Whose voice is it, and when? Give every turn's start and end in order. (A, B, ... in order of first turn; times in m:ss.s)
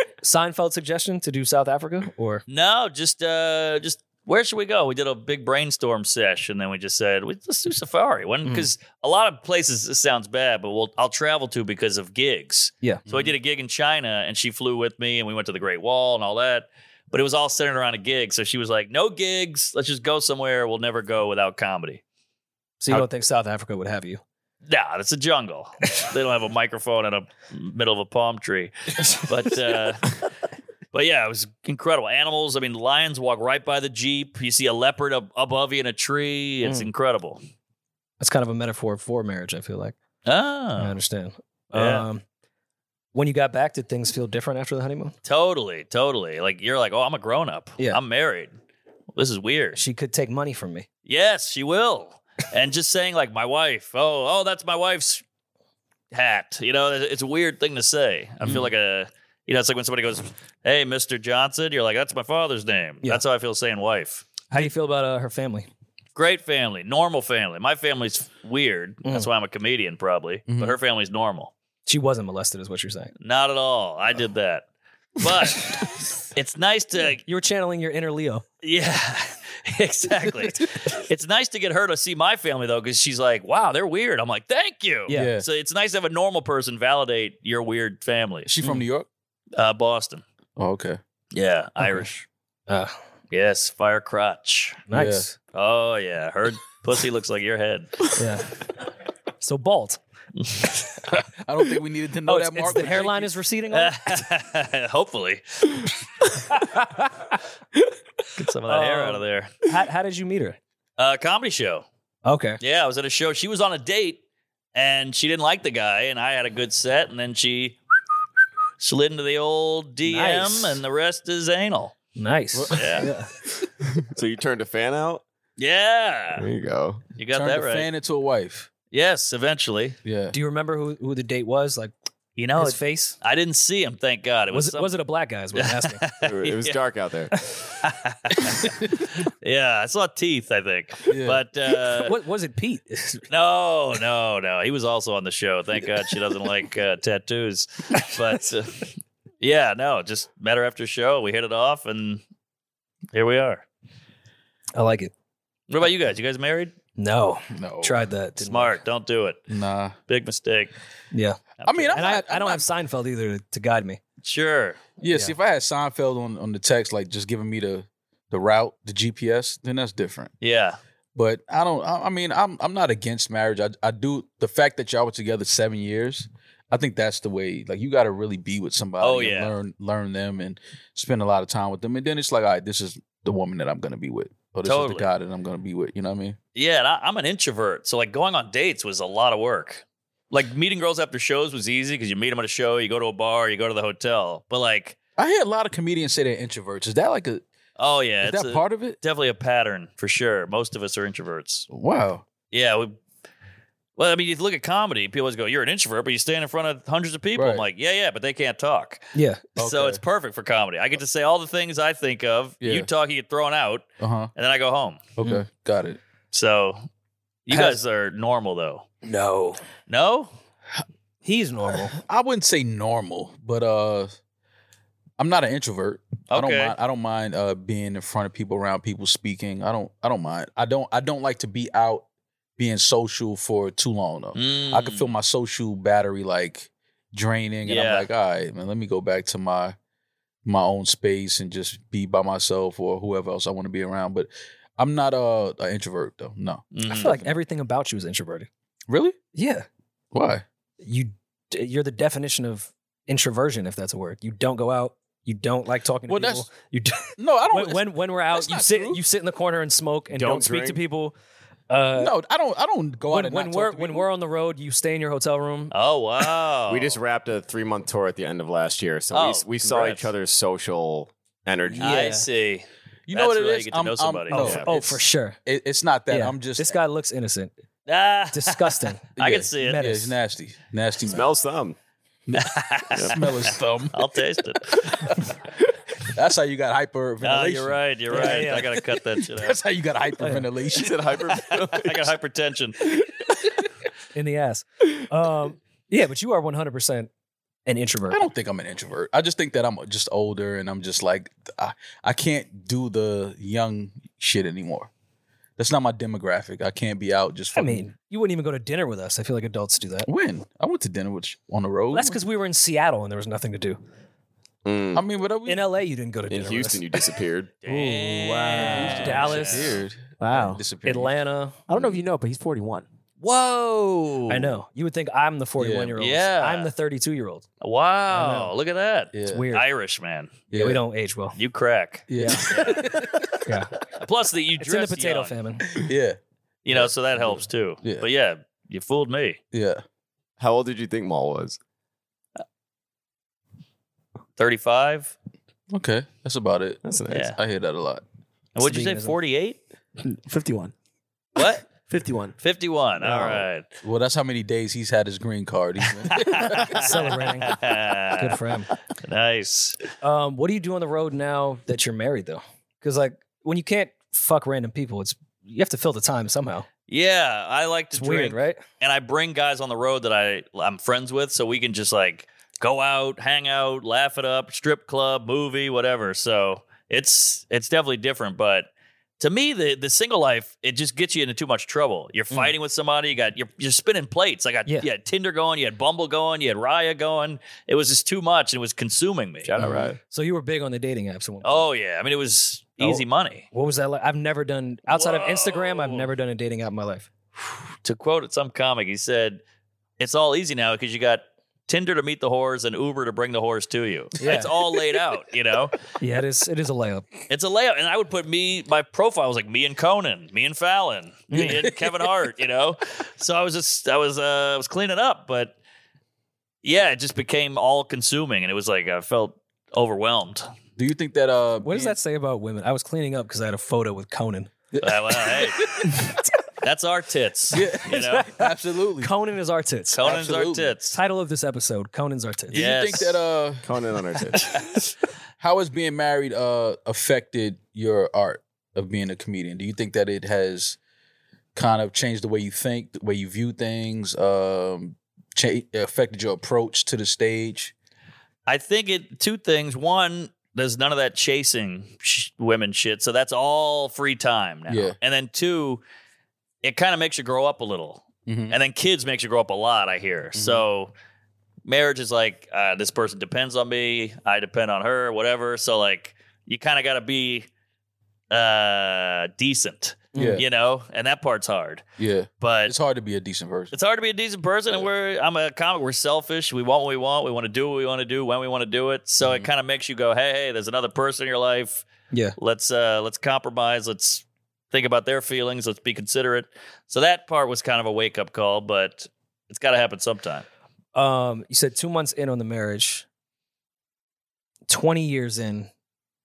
0:00.2-0:02.4 A
0:02.5-0:22.0 B
0:08.4-0:08.7 A
0:22.8-0:24.2 A
0:24.7-0:30.2 B
0:30.9-0:37.4 B
0:36.6-0:36.9 A
0:38.2-0:40.0 A
0:40.2-0:41.0 B
0:40.8-0:42.2 A
0:41.7-0:42.1 B
0:43.1-0:45.2 A
0:45.2-0:48.5 B
0:49.1-0:49.8 B
0:49.8-0:50.9 A
0:51.1-0:55.2 B
0:56.1-1:04.3 B
1:04.5-1:05.7 A
1:06.2-1:11.5 B
1:09.0-1:09.3 A
1:10.5-1:10.8 C
1:11.9-1:13.1 A
1:13.2-1:14.7 B
1:15.2-1:17.2 B
1:17.3-1:18.4 A
1:18.6-1:28.5 B
1:25.1-1:25.4 A
1:25.1-1:25.5 C
1:28.5-1:29.1 C
1:28.6-1:28.9 A
1:29.6-1:30.2 B
1:30.6-1:31.0 C
1:31.3-1:32.3 B
1:32.7-1:33.0 A
1:33.3-1:34.8 B
1:34.9-1:35.4 A
1:34.9-1:35.3 C
1:35.5-1:38.1 B
1:38.1-1:38.6 A
1:39.4-1:40.0 A
1:41.1-1:43.3 C
1:42.3-1:44.2 A
1:43.7-1:45.8 B
1:46.5-1:47.4 A
1:48.4-1:49.6 B
1:48.7-1:50.6 A
1:51.0-1:51.8 B
1:52.2-1:52.6 A
1:52.6-1:54.2 B
1:54.8-1:57.8 B
1:58.8-2:02.0 B
2:00.0-2:00.8 A
2:02.2-2:03.3 A
2:02.5-2:03.0 C
2:02.7-2:03.1 B
2:04.0-2:05.2 D
2:05.6-2:06.5 B
2:06.4-2:07.0 D
2:07.2-2:07.9 B
2:07.3-2:08.7 C
2:08.9-2:10.0 B
2:10.0-2:10.4 C
2:10.3-2:11.9 A
2:12.4-2:15.0 B
2:12.6-2:13.2 A
2:14.5-2:16.0 A
2:15.5-2:16.8 B
2:16.2-2:17.4 D
2:17.8-2:22.2 B
2:21.1-2:21.4 C
2:21.7-2:23.2 A
2:23.3-2:32.2 B
2:33.1-2:33.7 B
2:34.8-2:35.1 A
2:35.7-2:36.8 B
2:37.0-2:38.8 A
2:37.6-2:38.0 C
2:38.4-2:39.4 B
2:39.5-2:40.0 C
2:40.1-2:40.7 B
2:41.1-2:41.4 A
2:41.6-2:42.0 B
2:41.7-2:42.7 C
2:41.9-2:44.0 A
2:44.2-2:44.8 B
2:45.0-2:50.3 C
2:50.4-2:50.8 B
2:51.2-3:06.4 C
2:59.0-2:59.6 B
3:04.6-3:05.1 B
3:06.6-3:15.0 B
3:15.2-3:17.4 C
3:17.8-3:21.7 B
3:18.2-3:19.0 C
3:21.7-3:22.2 C
3:22.5-3:23.0 B
3:24.0-3:29.0 B
3:27.4-3:27.7 C
3:29.2-3:29.4 A
3:29.6-3:35.0 B
3:29.6-3:30.0 C
3:32.6-3:32.9 C
3:34.0-3:34.3 C
3:35.2-3:36.0 C
3:36.3-3:36.8 B
3:37.5-3:38.9 B
3:37.5-3:37.8 A
3:39.0-3:39.6 A
3:39.9-3:40.3 B
3:41.2-3:42.0 A
3:42.0-3:44.2 C
3:45.2-3:52.0 C
3:46.3-3:46.8 B
3:52.6-3:59.8 C
3:54.4-3:55.1 B
3:57.6-3:58.1 B
4:00.4-4:07.1 C
4:06.7-4:07.2 B
4:06.9-4:08.5 A
4:08.9-4:09.2 C
4:09.4-4:09.7 A
4:10.1-4:10.4 C
4:10.8-4:21.1 A
4:16.1-4:16.5 C
4:17.2-4:19.0 C
4:20.1-4:20.8 D
4:21.7-4:22.1 A
4:22.0-4:24.1 C
4:23.1-4:25.7 A
4:25.7-4:27.0 B
4:26.7-4:32.1 D
4:29.1-4:30.1 B
4:31.7-4:32.3 A
4:31.8-4:34.5 B
4:33.1-4:36.8 C
4:34.3-4:34.7 D
4:34.3-4:35.4 A
4:36.1-4:37.5 A
4:37.9-4:39.9 B
4:38.3-4:40.2 A
4:39.2-4:41.3 C
4:41.0-4:41.8 D
4:42.3-4:44.0 C
4:42.4-4:45.2 B
4:44.8-4:45.3 C
4:46.0-4:48.5 C
4:47.2-4:49.6 B
4:48.1-4:48.8 A
4:49.3-4:51.2 C
4:50.2-4:50.5 A
4:50.7-4:52.1 D
4:51.5-4:52.9 B
4:54.1-4:57.1 A
4:57.7-4:58.3 A
4:58.1-5:04.9 C
5:05.6-5:07.8 C
5:07.5-5:10.1 A
5:10.0-5:12.2 C
5:11.9-5:13.8 A
5:14.6-5:15.0 D
5:14.9-5:15.7 C
5:15.4-5:17.1 A
5:16.3-5:17.5 D
5:17.6-5:19.8 B
5:17.7-5:19.8 A
5:18.6-5:21.1 C
5:20.2-5:20.7 E
5:20.8-5:21.6 A
5:21.7-5:22.9 E
5:23.2-5:24.5 B
5:24.3-5:27.4 A
5:25.6-5:26.0 C
5:26.0-5:26.7 B
5:27.6-5:30.3 B
5:28.1-5:28.5 A
5:29.1-5:29.5 C
5:29.3-5:29.6 A
5:30.5-5:30.8 C
5:30.5-5:31.4 A
5:31.4-5:32.8 B
5:32.1-5:33.4 C
5:32.1-5:32.8 A
5:33.4-5:33.7 A
5:34.0-5:35.4 B
5:34.6-5:35.7 A
5:35.8-5:36.2 C
5:36.6-5:39.4 B
5:36.7-5:38.1 C
5:39.5-5:39.8 C
5:40.4-5:41.6 D
5:44.4-5:45.1 B
5:45.7-5:48.0 C
5:46.8-5:47.3 D
5:47.1-5:47.4 B
5:48.6-5:49.6 B
5:48.6-5:49.2 A
5:50.0-5:50.7 E
5:51.4-5:51.7 B
5:51.9-5:52.4 E
5:52.4-5:53.7 B
5:53.8-5:56.8 C
5:56.0-5:58.4 B
5:56.6-5:58.7 A
5:58.9-5:59.8 B
6:00.0-6:06.7 A
6:06.9-6:29.5 B
6:07.9-6:08.6 A
6:29.4-6:30.0 D
6:29.6-6:31.7 A
6:31.4-6:33.5 B
6:32.8-6:37.1 A
6:34.9-6:36.1 B
6:37.8-6:39.4 B
6:40.0-6:45.8 B
6:44.2-6:44.5 A
6:46.0-6:47.2 A
6:47.3-6:55.6 B
6:51.3-6:51.6 A
6:51.4-6:51.9 C
6:56.6-7:00.5 B
7:00.8-7:02.0 C
7:01.6-7:04.5 A
7:04.8-7:06.2 C
7:04.8-7:05.8 B
7:06.6-7:08.3 B
7:07.5-7:09.1 C
7:07.9-7:10.1 A
7:09.9-7:11.0 B
7:10.0-7:10.7 C
7:10.9-7:12.6 A
7:12.5-7:13.7 C
7:12.5-7:13.2 B
7:13.6-7:14.8 D
7:15.4-7:20.8 C
7:21.6-7:27.7 C
7:28.5-7:35.8 B
7:34.7-7:35.0 C
7:36.6-7:40.9 B
7:38.3-7:38.6 C
7:40.4-7:40.6 C
7:41.7-7:47.5 B
7:48.3-7:51.8 B
7:50.1-7:50.4 A
7:50.2-7:50.4 C
7:52.0-7:53.7 C
7:52.4-7:52.8 B
7:53.7-8:01.8 B
7:59.2-7:59.5 C
8:02.1-8:02.4 A
8:02.4-8:10.5 B
8:10.9-8:13.0 A
8:14.7-8:15.7 A